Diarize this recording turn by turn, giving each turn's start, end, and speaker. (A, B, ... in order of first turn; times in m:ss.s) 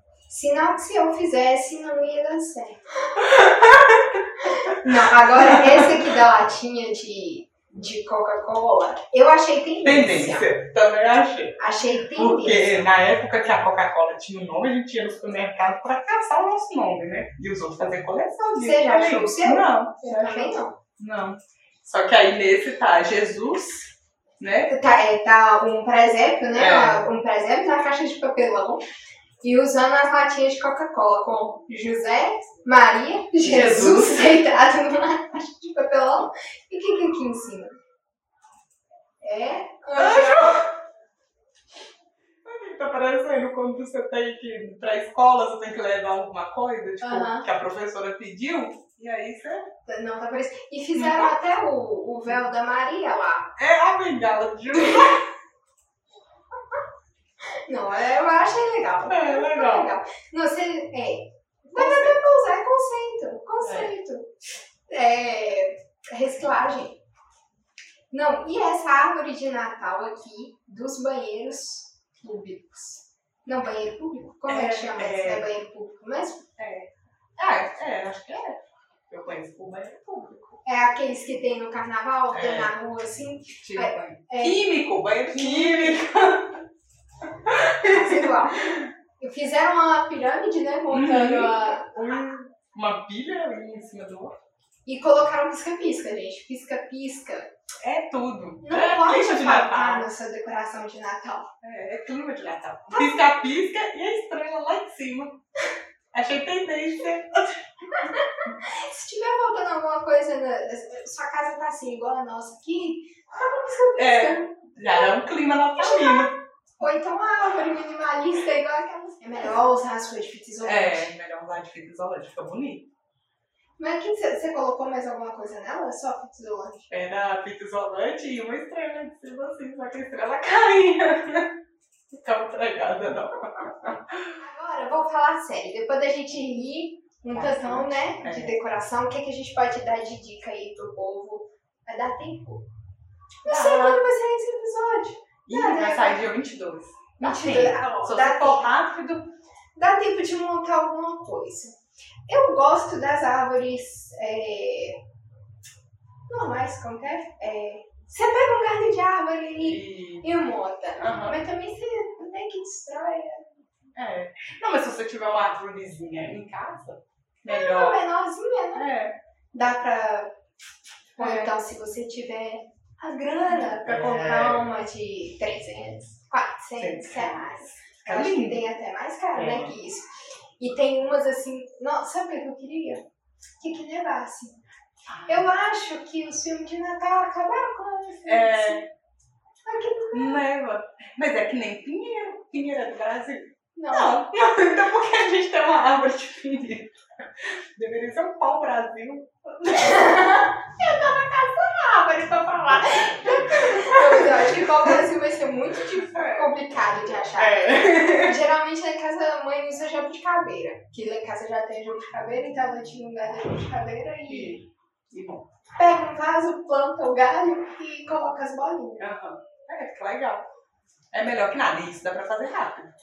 0:00.3-0:03.3 A
0:03.2-0:06.0 B
0:04.5-0:10.5 A
0:09.8-0:11.6 B
0:11.6-0:12.8 A
0:12.2-0:24.7 B
0:18.6-0:20.8 A
0:24.7-0:28.8 A
0:26.5-0:27.0 B
0:29.4-0:37.7 A
0:33.4-0:34.4 B
0:39.2-0:40.6 A
0:40.0-0:40.7 B
0:42.4-0:49.7 B
0:47.0-0:47.4 A
0:49.9-0:53.5 A
0:51.0-0:51.3 B
0:53.6-0:55.2 B
0:57.7-1:04.3 A
0:59.1-0:59.9 B
1:01.8-1:02.2 B
1:03.6-1:03.9 B
1:04.9-1:07.0 A
1:08.1-1:16.5 A
1:14.5-1:15.5 B
1:16.6-1:18.6 B
1:19.1-1:20.6 B
1:20.6-1:24.7 A
1:22.3-1:22.7 B
1:23.6-1:26.6 B
1:25.3-1:26.0 A
1:27.4-1:28.9 B
1:27.8-1:28.6 A
1:29.2-1:32.2 A
1:30.9-1:34.3 B
1:34.9-1:37.5 A
1:37.8-1:40.1 B
1:38.6-1:41.5 A
1:41.6-1:45.4 B
1:42.9-1:43.2 A
1:46.1-1:47.6 B
1:47.9-1:55.1 A
1:54.0-1:56.3 B
1:55.8-2:01.1 A
2:00.6-2:02.9 B
2:03.8-2:06.8 A
2:06.9-2:11.5 B
2:12.1-2:14.4 B
2:14.4-2:22.6 A
2:17.3-2:18.6 B
2:23.4-2:26.2 A
2:23.4-2:24.0 B
2:25.5-2:29.3 B
2:27.2-2:28.7 A
2:29.8-2:31.7 A
2:32.3-2:35.0 A
2:36.3-2:43.4 A
2:39.6-2:40.3 B
2:41.0-2:41.4 B
2:44.0-2:48.0 B
2:47.5-2:48.9 A
2:48.8-2:49.2 B
2:49.5-2:50.3 A
2:51.2-2:51.5 B
2:51.2-3:00.1 A
2:53.5-2:54.6 B
2:56.8-2:58.6 B
2:59.3-2:59.7 B
3:00.6-3:03.0 A
3:03.6-3:04.6 A
3:05.1-3:05.5 B
3:05.3-3:08.8 A
3:08.3-3:08.9 B
3:09.7-3:10.4 A
3:10.1-3:20.3 B
3:13.8-3:14.2 A
3:19.7-3:34.6 A
3:22.6-3:25.0 B
3:26.1-3:26.5 B
3:27.4-3:28.4 B
3:34.3-3:35.5 B
3:35.8-3:39.0 A
3:39.0-3:40.5 B
3:41.1-3:42.9 B